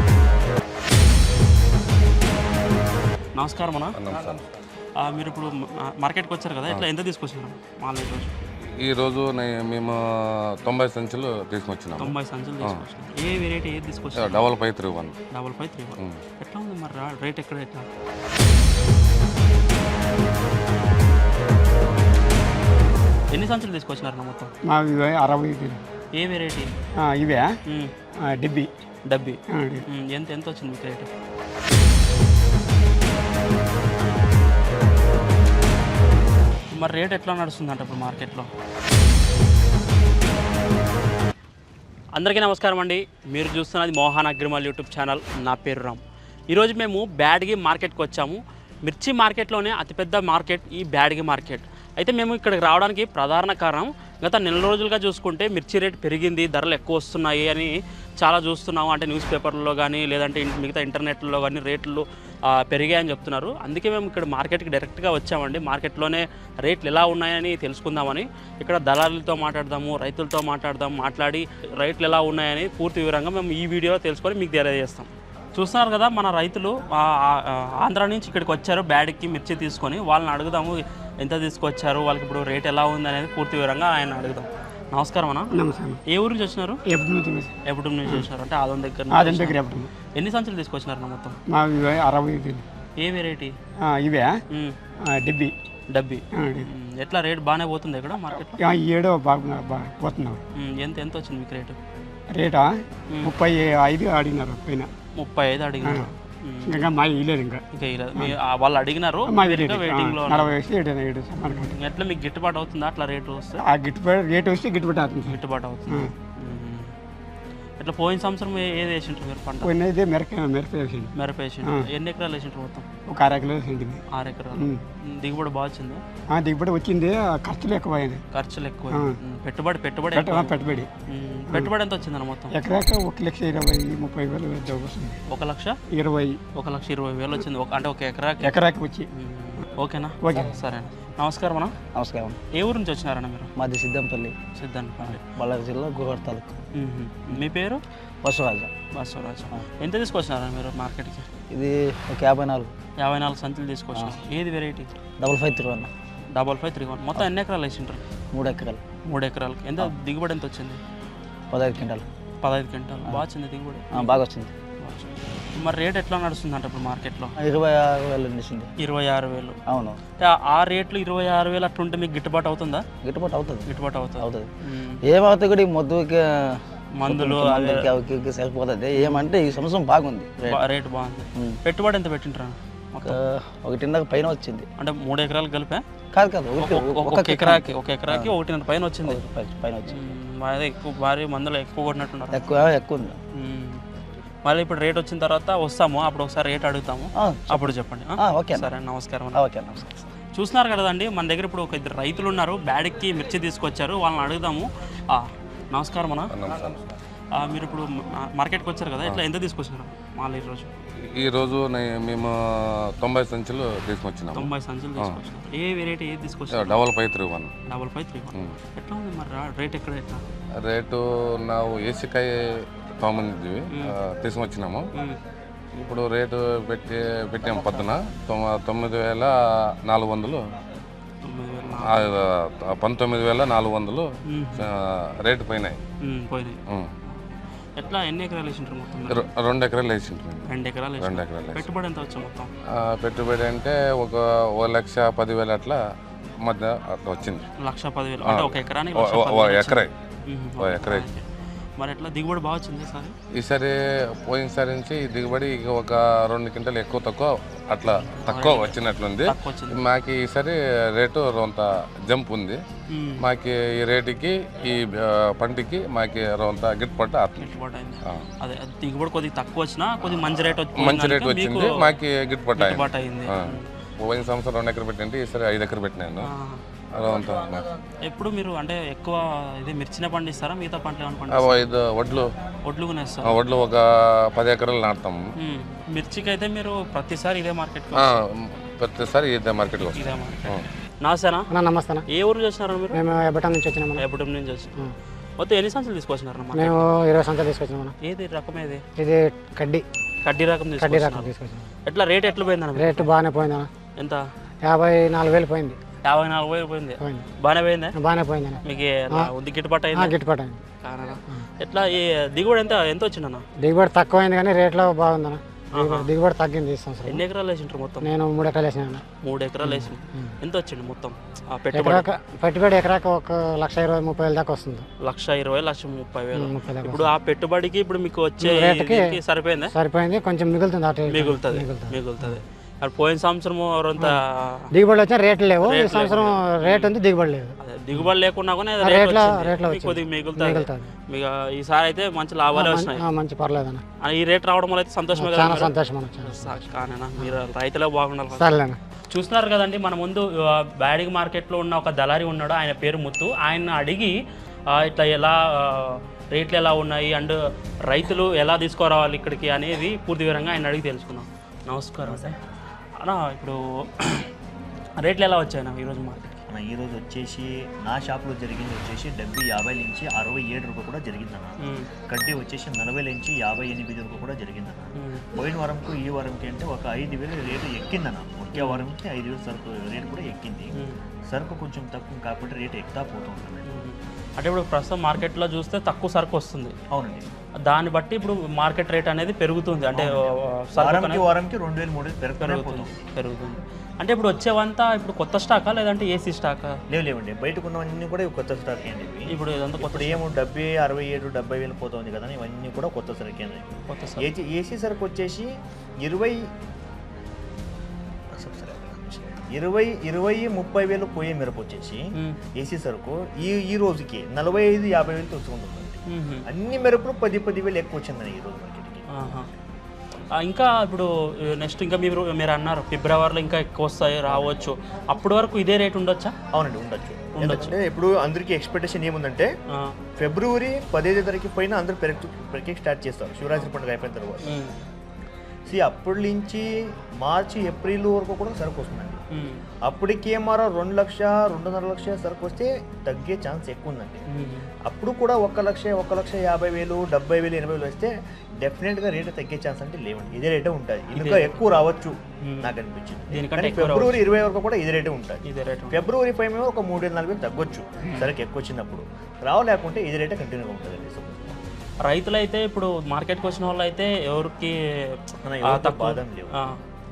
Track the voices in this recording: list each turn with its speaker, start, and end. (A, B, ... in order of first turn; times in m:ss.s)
0:03.4-0:04.0 A
0:04.0-0:04.5 B
0:05.0-0:08.3 A
0:08.6-0:12.8 B
0:12.0-0:14.5 A
0:14.2-0:15.2 B
0:15.3-0:17.9 A
0:23.3-0:24.5 A
0:24.7-0:25.8 C
0:26.2-0:26.7 A
0:27.0-0:27.5 C
0:27.7-0:27.9 A
0:28.2-0:28.7 C
0:29.1-0:31.1 A
0:29.5-0:29.8 C
0:36.7-0:38.5 A
0:42.2-0:46.0 A
0:46.5-1:25.5 A
1:25.5-1:26.0 C
1:26.1-1:26.8 A
1:26.9-1:27.5 C
1:27.6-1:29.6 A
1:29.1-1:29.9 C
1:30.2-1:31.4 A
1:31.5-1:32.6 C
1:33.0-1:33.6 A
1:33.9-1:34.3 C
1:35.1-1:35.5 C
1:35.9-1:38.6 A
1:36.4-1:36.7 C
1:38.6-1:40.4 C
1:40.6-1:41.8 A
1:42.3-1:44.9 C
1:45.2-1:46.9 A
1:45.8-1:46.1 C
1:46.7-1:47.6 C
1:47.7-1:50.5 A
1:49.3-1:51.8 C
1:51.5-1:53.6 A
1:53.6-1:56.1 C
1:55.3-1:57.0 A
1:57.8-1:59.7 A
1:59.6-2:01.1 C
2:01.2-2:02.9 A
2:03.1-2:04.0 C
2:04.1-2:06.0 A
2:04.6-2:04.8 C
2:06.3-2:08.2 C
2:08.3-2:12.6 A
2:08.9-2:09.2 C
2:10.1-2:10.9 C
2:12.5-2:15.2 C
2:15.3-2:15.8 A
2:15.9-2:16.4 C
2:16.6-2:18.5 A
2:18.4-2:19.1 C
2:19.1-2:21.7 A
2:20.2-2:20.6 C
2:21.9-2:22.4 D
2:22.5-2:23.5 A
2:23.6-2:24.4 D
2:24.5-2:25.3 A
2:25.0-2:26.6 D
2:26.7-2:27.8 A
2:28.2-2:28.7 D
2:28.9-2:31.3 A
2:31.5-2:32.7 D
2:33.0-2:34.9 A
2:35.2-2:35.9 D
2:36.3-2:38.0 A
2:38.3-2:38.8 D
2:39.1-2:40.8 A
2:41.5-2:42.1 D
2:42.4-2:44.2 A
2:43.9-2:44.5 D
2:44.8-2:47.3 A
2:47.4-2:48.7 D
2:48.8-2:49.6 A
2:49.7-2:50.0 D
2:50.2-2:52.8 A
2:53.0-2:54.5 D
2:53.7-2:55.0 A
2:55.0-3:00.6 D
2:57.0-2:57.9 A
2:59.0-2:59.3 A
3:00.5-3:03.2 A
3:03.0-3:04.7 D
3:04.8-3:05.8 A
3:06.1-3:08.4 D
3:06.6-3:09.2 A
3:09.0-3:10.0 D
3:09.9-3:12.5 A
3:12.3-3:13.2 D
3:13.4-3:13.8 A
3:14.4-3:19.4 A
3:17.2-3:18.7 D
3:19.3-3:20.1 D
3:20.3-3:26.3 A
3:26.3-3:26.9 B
3:27.4-3:30.7 A
3:31.0-3:32.3 B
3:33.0-3:35.2 B
3:34.3-3:36.8 A
3:36.5-3:37.5 B
3:37.7-3:40.2 A
3:40.6-3:42.3 B
3:43.0-3:44.8 B
3:45.8-3:49.3 B
3:49.9-3:50.4 B
3:51.2-3:52.1 A
3:51.8-3:55.8 B
3:54.3-3:54.7 A
3:56.0-3:59.2 A
3:59.1-4:01.7 B
4:00.5-4:02.5 A
4:02.8-4:05.8 B
4:06.4-4:07.4 B
4:07.6-4:11.2 A
4:08.3-4:09.9 B
4:10.6-4:11.1 B
4:11.8-4:13.1 A
4:13.4-4:13.7 B
4:14.2-4:22.6 B
4:18.0-4:19.8 A
4:22.9-4:23.2 A
4:23.2-4:28.3 B
4:27.4-4:32.0 A
4:30.1-4:36.3 B
4:32.6-4:33.7 A
4:36.2-4:36.6 A
4:36.9-4:37.7 B
4:38.0-4:41.7 A
4:41.3-4:42.3 B
4:42.7-4:43.4 A
4:43.3-4:45.2 B
4:45.4-4:48.2 A
4:48.0-4:50.7 B
4:49.9-4:51.5 A
4:51.5-4:52.0 E
4:52.1-4:53.0 A
4:52.9-4:54.0 E
4:54.0-4:54.7 A
4:55.4-4:56.8 A
4:56.5-4:57.9 E
4:58.0-4:58.8 A
4:59.0-4:59.8 E
5:00.2-5:01.3 A
5:00.8-5:01.7 E
5:01.9-5:03.1 A
5:02.8-5:03.7 E
5:04.0-5:04.2 A
5:04.6-5:05.8 E
5:06.0-5:07.9 A
5:07.0-5:07.3 E
5:08.0-5:09.3 E
5:08.6-5:10.2 A
5:09.9-5:10.6 E
5:10.8-5:13.4 A
5:13.6-5:17.2 E
5:15.7-5:16.1 A
5:17.1-5:18.1 A
5:18.0-5:19.0 E
5:19.2-5:22.0 A
5:19.6-5:20.4 E
5:21.7-5:24.9 E
5:25.0-5:29.7 A
5:26.3-5:27.1 E
5:28.4-5:29.2 E
5:29.7-5:32.4 E
5:31.1-5:34.7 A
5:34.7-5:38.1 E
5:35.6-5:37.0 A
5:37.6-5:43.0 A
5:38.8-5:40.9 E
5:42.5-5:43.8 E
5:44.0-5:45.7 A
5:45.2-5:46.6 E
5:46.2-5:54.2 A
5:48.3-5:48.8 E
5:54.7-6:02.4 A
6:02.0-6:02.3 F
6:03.0-6:04.3 A
6:05.0-6:06.4 A
6:06.5-6:20.7 F
6:11.6-6:11.9 A
6:15.0-6:15.2 A
6:18.5-6:18.9 A
6:21.3-6:23.7 F
6:23.7-6:26.8 A
6:26.9-6:27.3 F
6:27.6-6:31.3 A
6:29.9-6:33.0 F
6:32.4-6:36.8 A
6:36.9-6:43.7 F
6:39.3-6:40.2 A
6:43.9-6:44.3 A
6:44.2-6:45.5 F
6:46.0-6:46.4 F
6:48.4-6:52.0 F
6:52.6-6:59.5 F
6:56.1-6:56.4 A
6:59.1-6:59.5 A
7:00.4-7:06.4 A
7:04.3-7:04.7 F
7:06.5-7:09.5 F
7:07.4-7:07.8 A
7:10.2-7:14.6 F
7:14.4-7:14.8 A
7:15.7-7:16.7 F
7:17.2-7:19.2 F
7:19.3-7:19.6 A
7:19.8-7:24.2 F
7:24.3-7:24.7 A
7:24.8-7:41.6 F
7:31.2-7:31.6 A
7:32.4-7:32.7 A
7:33.3-7:34.2 A
7:35.4-7:36.0 A
7:42.0-7:46.8 A
7:45.4-7:46.6 F